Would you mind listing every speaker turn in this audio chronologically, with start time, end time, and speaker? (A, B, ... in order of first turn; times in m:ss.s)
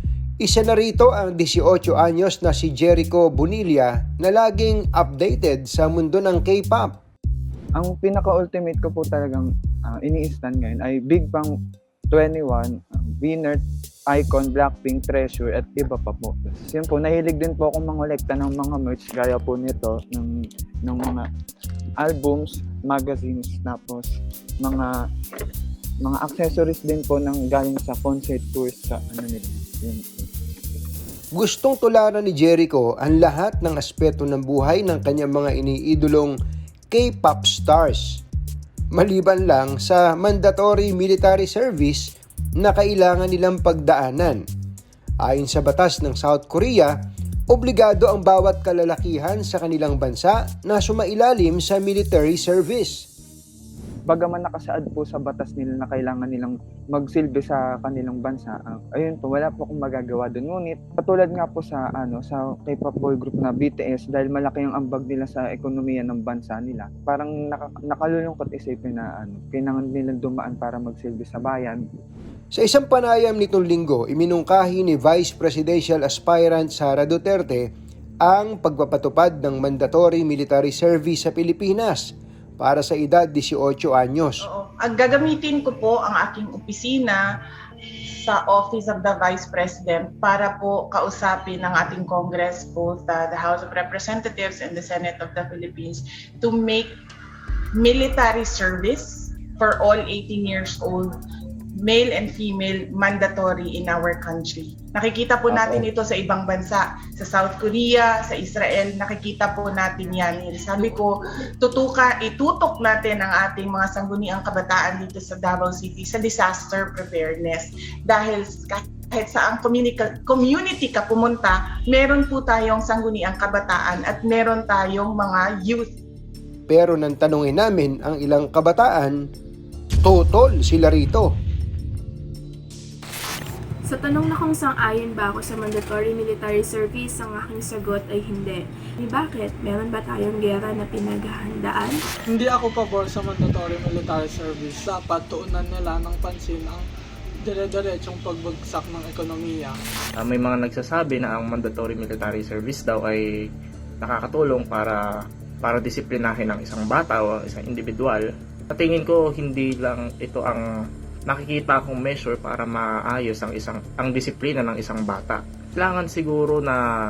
0:00.4-0:06.9 A
0:07.8-0:11.5 B
0:12.1-0:20.3 B
0:20.8-0:21.2 B
0:22.0-0:24.1 B
0:24.6-0:24.9 B
0:26.0-0:30.0 B
0:31.4-0:36.3 A
0:36.9-0:38.0 A
0:38.9-0:42.0 A
0:42.6-0:44.4 A
0:45.2-0:46.9 A
0:47.5-0:52.9 A
0:54.1-1:11.8 B
1:12.5-1:17.6 A
1:18.2-1:22.0 A
1:22.6-1:24.4 A
1:24.4-1:27.2 C
1:28.2-1:36.9 C
1:37.8-1:41.1 C
1:41.8-2:05.9 C
2:06.7-2:09.2 A
2:10.0-2:11.3 A
2:13.9-2:22.0 D
2:22.3-2:26.9 E
2:27.4-2:29.8 E
2:30.2-2:33.5 F
2:34.0-2:35.0 F
2:35.6-2:40.6 F
2:41.3-2:46.8 F